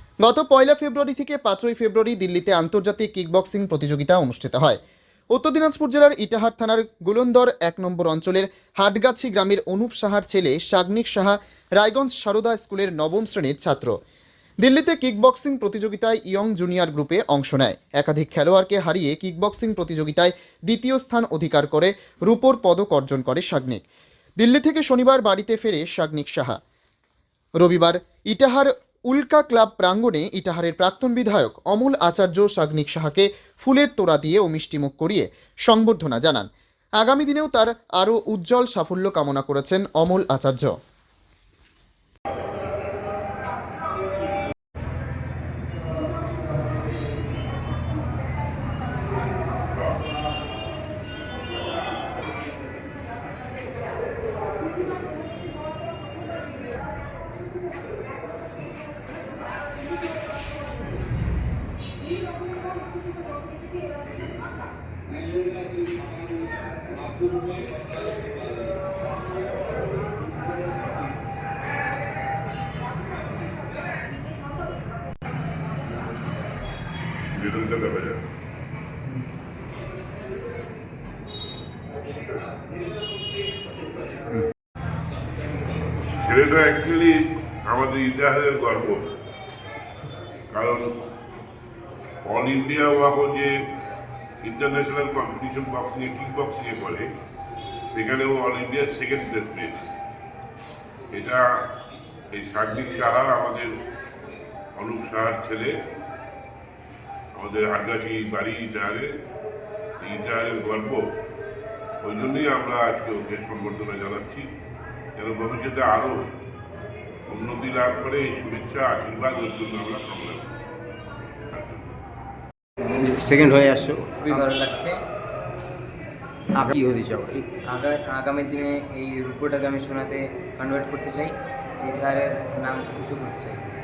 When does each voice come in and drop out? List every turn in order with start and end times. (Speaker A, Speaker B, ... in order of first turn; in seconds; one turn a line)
Speaker A: 0.2-4.8
Speaker A: 5.3-14.0
Speaker A: 14.6-23.8
Speaker A: 24.4-26.6
Speaker A: 27.6-36.5
Speaker A: 37.0-40.8
Speaker B: 77.3-78.2
Speaker B: 86.2-89.1
Speaker B: 90.5-90.9
Speaker B: 92.2-93.5
Speaker B: 94.4-97.1
Speaker B: 97.9-99.9
Speaker B: 101.1-101.5
Speaker B: 102.3-103.7
Speaker B: 104.8-105.7
Speaker B: 107.4-109.1
Speaker B: 110.0-111.0
Speaker B: 112.0-114.5
Speaker B: 115.2-116.2
Speaker B: 117.3-120.5
Speaker B: 121.5-121.8
Speaker C: 122.8-124.4
Speaker D: 124.2-125.0
Speaker C: 126.5-127.5
Speaker D: 127.7-133.7